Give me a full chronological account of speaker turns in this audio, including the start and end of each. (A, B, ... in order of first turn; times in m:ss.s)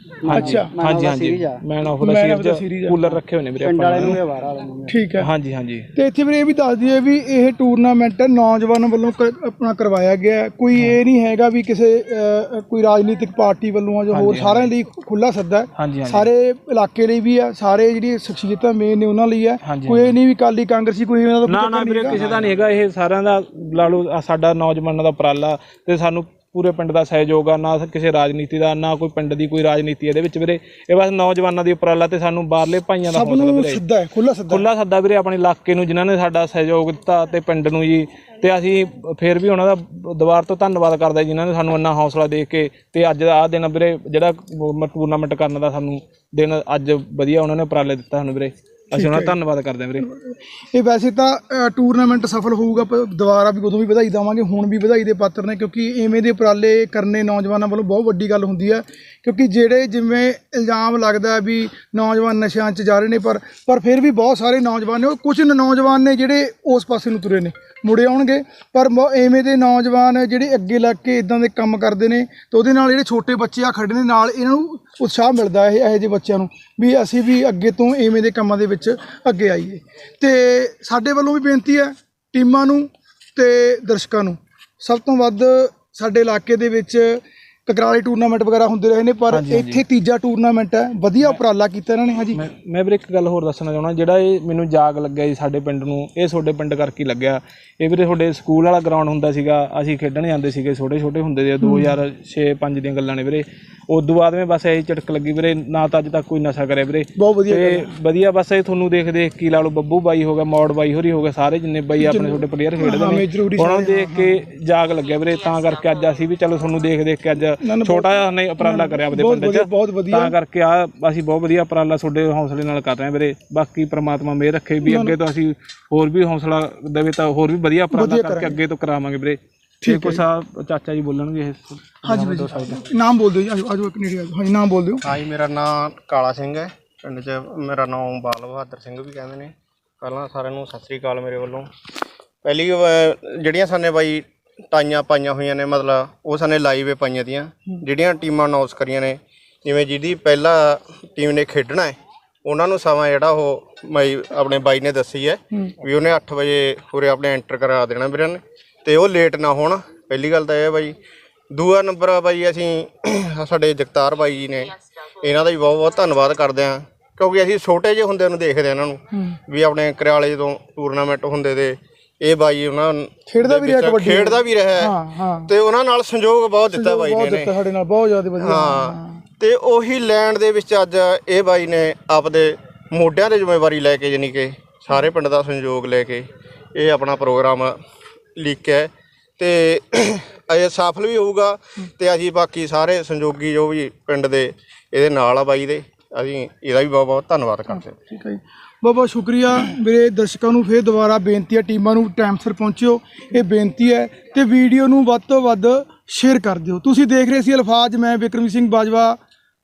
0:00.3-0:01.6 A
0:00.3-0:04.2 B
0:00.3-0:00.7 C
0:02.0-0:03.1 C
0:03.6-0:05.0 A
0:04.9-0:05.3 C
0:05.2-0:05.9 B
0:06.0-0:22.2 C
0:14.1-0:14.7 B
0:15.8-0:16.3 B
0:19.6-0:20.1 B
0:21.5-0:33.8 B
0:33.1-0:34.7 C
0:34.5-0:50.1 B
0:48.9-0:49.4 C
0:50.0-1:32.4 C
1:29.3-1:29.8 B
1:32.4-2:12.8 B
1:41.6-1:42.0 C
1:47.2-1:47.9 C
1:52.0-1:54.4 C
1:57.6-2:00.4 C
2:04.8-2:05.2 C
2:07.9-2:08.6 C
2:09.8-2:10.2 C
2:12.0-2:15.1 C
2:15.0-2:21.7 D
2:22.4-2:41.0 D
2:41.5-2:57.6 D
2:49.1-2:49.4 C
2:53.3-2:55.5 C
2:56.7-2:59.2 C
2:58.4-3:07.8 D
3:08.4-3:18.0 D
3:18.1-3:29.2 C